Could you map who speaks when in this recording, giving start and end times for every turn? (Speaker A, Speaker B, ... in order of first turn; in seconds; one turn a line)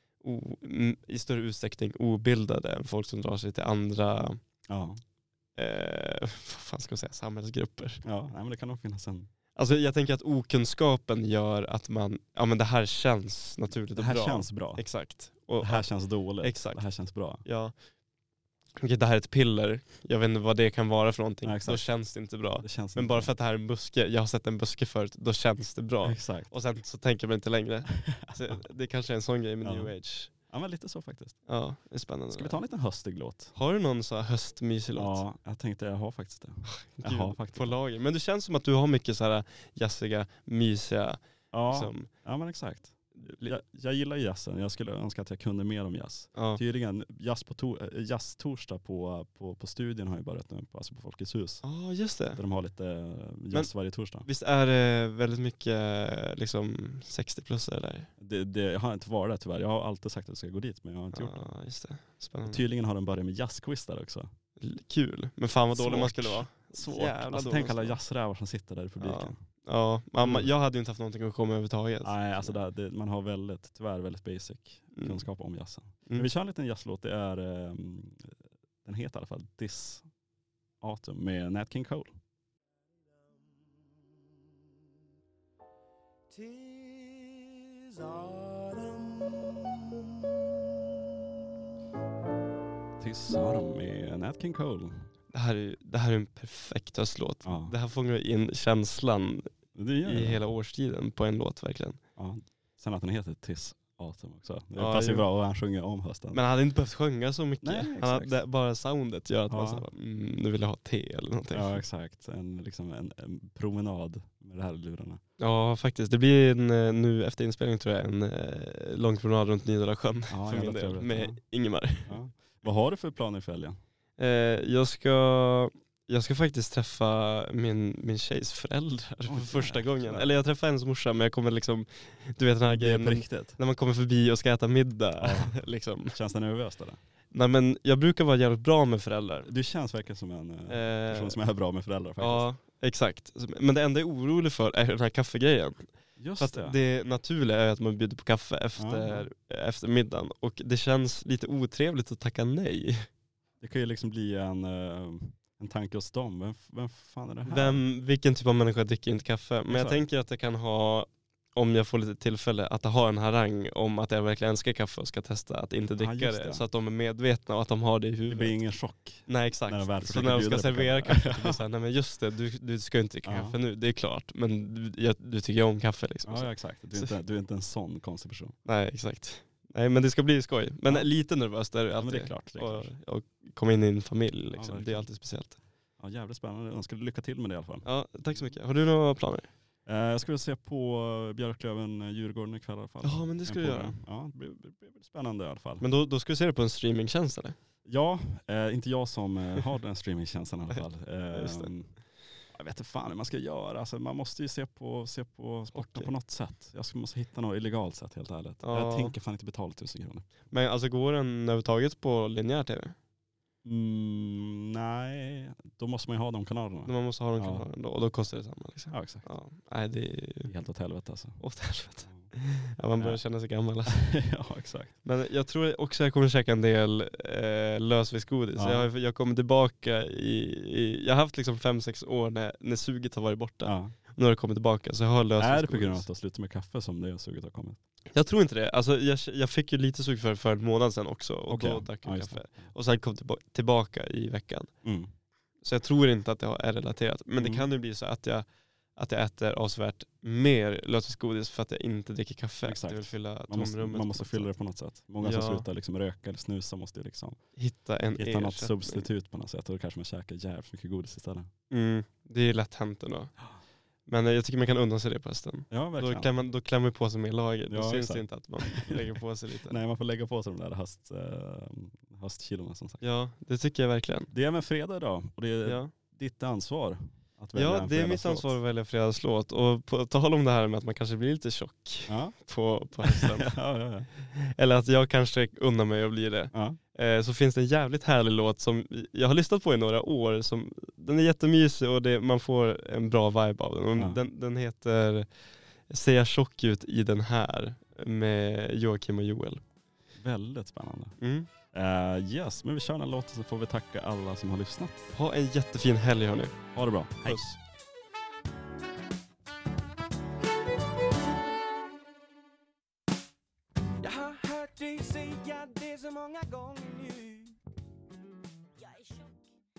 Speaker A: 0.2-4.4
Speaker B: 4.7-5.0
Speaker A: 5.5-8.0
Speaker B: 8.0-9.3
Speaker A: 9.6-15.9
Speaker B: 13.9-14.8
Speaker B: 15.6-17.4
Speaker A: 16.4-16.8
Speaker A: 17.4-17.7
Speaker A: 18.8-30.3
Speaker B: 21.4-21.9
Speaker B: 22.6-23.3
Speaker B: 26.0-26.5
Speaker B: 28.0-28.6
Speaker B: 29.6-31.4
Speaker A: 31.5-32.6
Speaker B: 32.3-33.5
Speaker A: 33.5-35.2
Speaker B: 35.0-37.8
Speaker A: 36.6-42.1
Speaker B: 41.5-51.6
Speaker A: 43.2-43.6
Speaker A: 46.3-46.6
Speaker A: 51.6-52.4
Speaker B: 52.4-54.3
Speaker A: 54.2-58.1
Speaker B: 58.2-61.4
Speaker A: 61.1-62.6
Speaker B: 62.5-64.3
Speaker A: 64.6-68.0
Speaker B: 65.7-69.4
Speaker A: 69.0-72.6
Speaker B: 70.2-70.5
Speaker B: 72.0-78.3
Speaker A: 74.9-75.2
Speaker B: 78.8-80.0
Speaker B: 80.8-82.1
Speaker C: 83.1-84.0
Speaker C: 86.3-90.3
Speaker B: 93.0-95.1
Speaker A: 95.3-99.5
Speaker B: 97.4-97.7
Speaker B: 99.7-100.4
Speaker A: 100.0-102.0
Speaker B: 102.2-106.4
Speaker A: 104.8-105.2
Speaker A: 106.3-111.8
Speaker B: 107.6-108.4
Speaker B: 109.5-109.8
Speaker B: 111.5-115.2
Speaker A: 115.4-122.1
Speaker B: 120.3-121.4
Speaker B: 122.0-123.8
Speaker A: 124.2-136.2
Speaker B: 129.3-130.3
Speaker B: 132.7-133.6
Speaker B: 135.2-137.0
Speaker A: 137.3-139.5
Speaker B: 139.4-142.4
Speaker A: 140.7-141.4
Speaker A: 142.2-145.8
Speaker B: 146.2-146.8
Speaker A: 146.4-153.1
Speaker B: 148.8-149.3
Speaker B: 153.6-157.8
Speaker A: 157.5-168.6
Speaker B: 159.7-160.0
Speaker B: 166.0-166.6
Speaker B: 168.3-171.6
Speaker A: 169.3-177.1
Speaker B: 173.2-173.6
Speaker B: 176.2-178.5
Speaker A: 178.6-185.6
Speaker B: 182.0-182.9
Speaker B: 184.5-185.1
Speaker B: 186.0-188.4
Speaker A: 187.8-189.5
Speaker B: 189.8-195.8
Speaker A: 193.0-193.9
Speaker A: 195.8-197.6
Speaker B: 197.8-201.9
Speaker A: 201.3-201.7
Speaker B: 202.5-210.3
Speaker A: 205.7-206.1
Speaker A: 208.6-209.1
Speaker A: 210.5-212.9
Speaker B: 213.6-217.7
Speaker A: 216.8-220.5
Speaker B: 218.9-219.3
Speaker B: 220.4-221.4
Speaker A: 221.4-224.0
Speaker B: 223.9-224.9
Speaker A: 225.0-236.1
Speaker B: 228.6-228.9
Speaker B: 233.6-233.9
Speaker B: 235.4-237.8
Speaker A: 238.1-244.7
Speaker B: 241.5-242.7
Speaker B: 244.8-245.1
Speaker A: 245.6-254.5
Speaker B: 247.4-247.7
Speaker B: 252.6-257.4
Speaker A: 255.2-255.7
Speaker A: 257.6-259.1
Speaker B: 258.1-261.5
Speaker A: 261.7-263.3
Speaker A: 264.1-269.8
Speaker B: 265.7-266.3
Speaker B: 267.7-273.0
Speaker A: 273.0-274.3
Speaker B: 274.3-278.6
Speaker A: 275.6-275.9
Speaker A: 277.5-283.5
Speaker B: 282.1-282.3
Speaker B: 283.0-284.1
Speaker A: 284.2-295.3
Speaker B: 286.5-286.8
Speaker A: 295.9-299.6
Speaker B: 300.1-301.1
Speaker A: 301.2-301.5
Speaker B: 301.7-305.1
Speaker A: 305.1-306.6
Speaker B: 306.7-307.4
Speaker A: 307.2-307.6
Speaker C: 314.0-317.6
Speaker C: 318.8-319.3